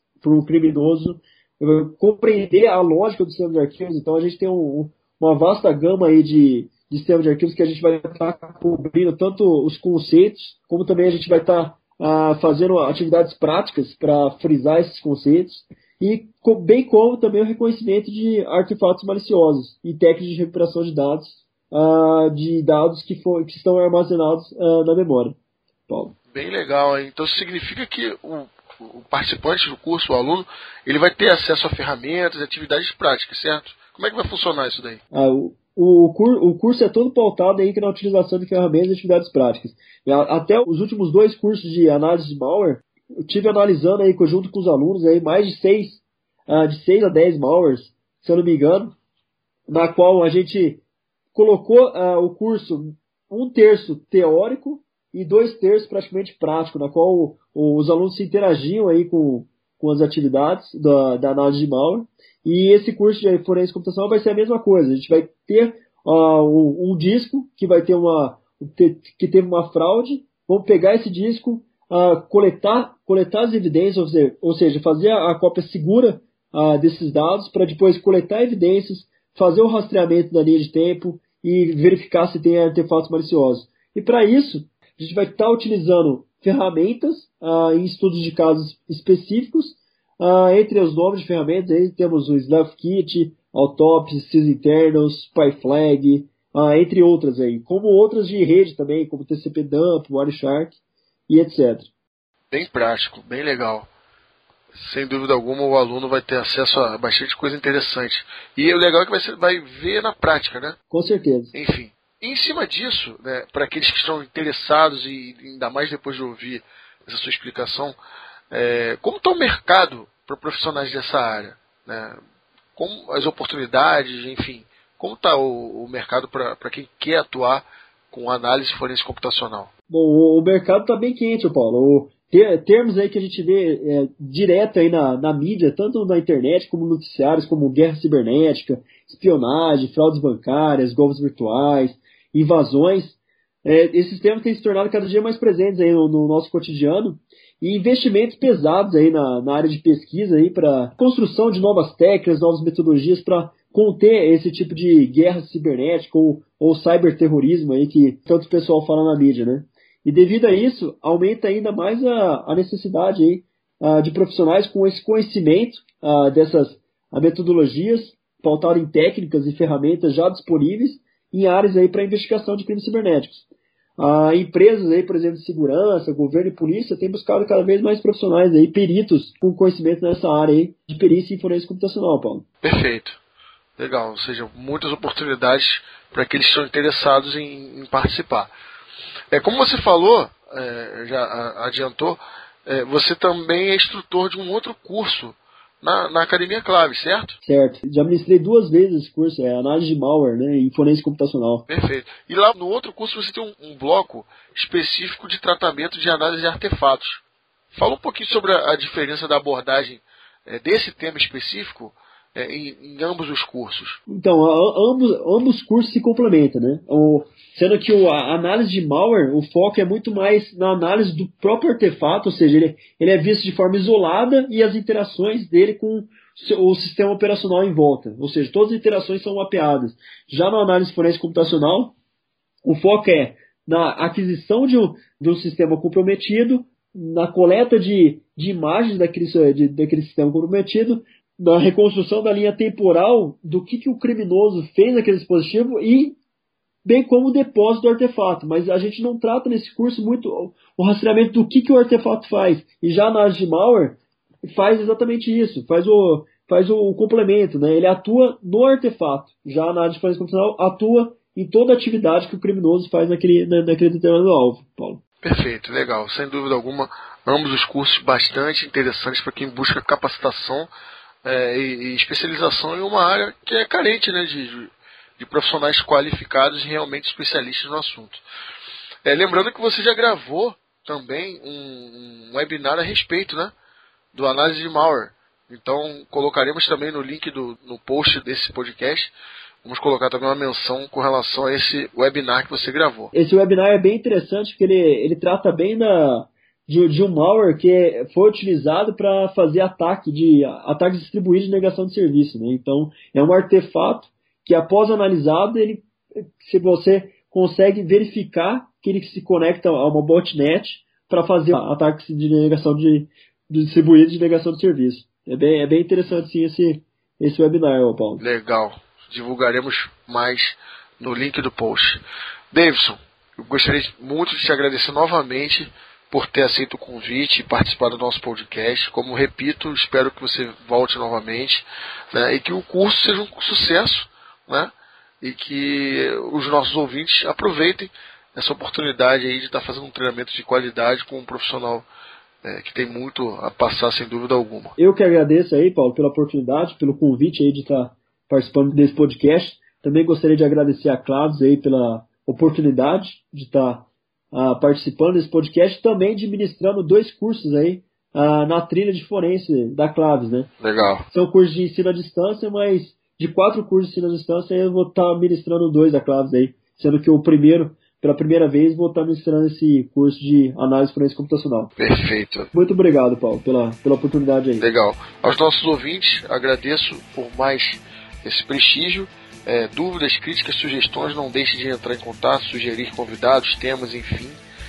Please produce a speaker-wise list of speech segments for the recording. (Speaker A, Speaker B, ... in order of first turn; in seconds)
Speaker A: 0.2-25.4, 25.9-26.1, 35.1-49.0, 49.7-50.8, 51.3-101.9, 110.9-111.5, 129.9-173.4, 174.0-182.4, 197.4-201.6, 214.1-231.9, 232.6-246.2, 246.8-265.0, 293.1-305.9, 306.4-318.2, 344.8-360.5, 361.1-371.7, 372.5-374.7
Speaker B: 26.3-35.0, 102.5-103.9, 104.8-110.8, 111.5-118.0, 118.5-122.2, 122.8-129.7, 182.6-183.2, 183.8-188.5, 189.3-197.3, 201.7-207.2, 207.7-214.0, 265.2-270.7, 271.2-278.2, 279.0-283.5, 284.1-289.1, 289.6-293.1, 318.2-341.9, 342.4-344.7, 360.6-361.0, 371.8-372.5, 374.6-384.4